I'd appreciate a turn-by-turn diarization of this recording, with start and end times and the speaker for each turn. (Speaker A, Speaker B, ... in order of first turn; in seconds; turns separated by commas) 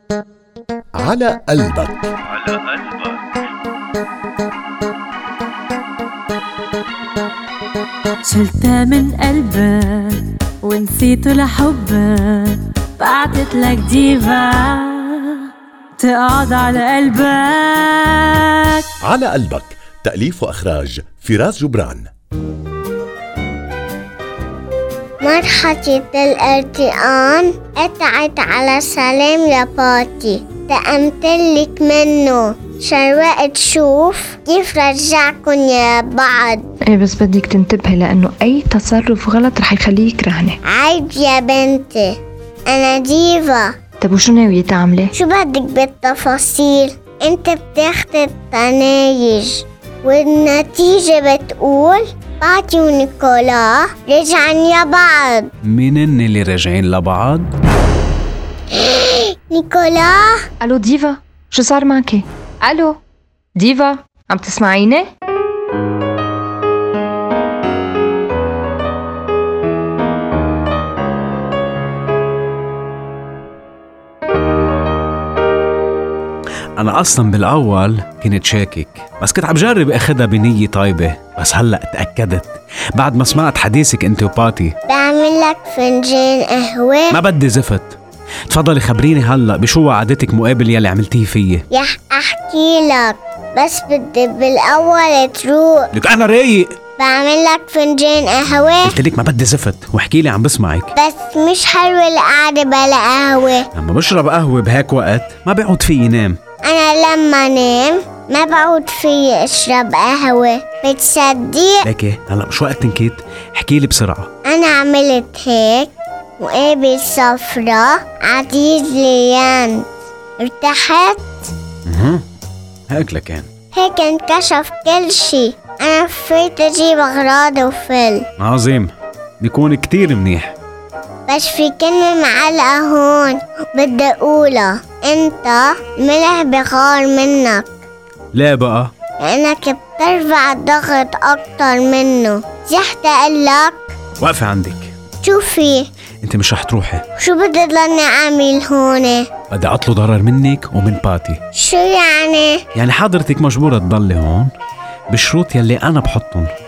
Speaker A: 0.9-2.1, Speaker B: 8.3-15.5, Speaker B: 16.0-18.8, Speaker A: 19.0-22.1, Speaker C: 25.2-36.6, Speaker D: 36.9-40.6, Speaker C: 40.7-42.1, Speaker C: 42.7-43.7, Speaker D: 44.0-45.1, Speaker C: 45.1-55.5, Speaker E: 55.6-57.5, Speaker C: 58.7-60.4, Speaker D: 60.6-63.0, Speaker D: 63.5-65.1, Speaker E: 76.8-84.8, Speaker C: 84.9-87.2, Speaker E: 87.1-88.0, Speaker E: 88.5-91.6, Speaker C: 91.7-95.9, Speaker E: 95.9-96.7, Speaker C: 97.0-99.0, Speaker E: 98.8-100.9, Speaker C: 101.0-103.7, Speaker E: 103.7-106.4, Speaker C: 106.6-111.9, Speaker E: 111.8-114.3, Speaker C: 114.5-115.9, Speaker C: 116.4-119.8, Speaker C: 120.4-121.5, Speaker E: 121.8-122.2, Speaker E: 122.9-123.5, Speaker C: 123.7-128.2, Speaker E: 128.4-130.5, Speaker C: 131.3-137.7, Speaker E: 138.3-138.9, Speaker C: 139.2-143.9, Speaker E: 144.2-144.9, Speaker C: 145.2-145.8, Speaker E: 146.2-147.0, Speaker C: 147.2-149.2, Speaker E: 149.5-151.4, Speaker C: 151.5-152.6, Speaker E: 152.7-154.5, Speaker E: 155.1-156.5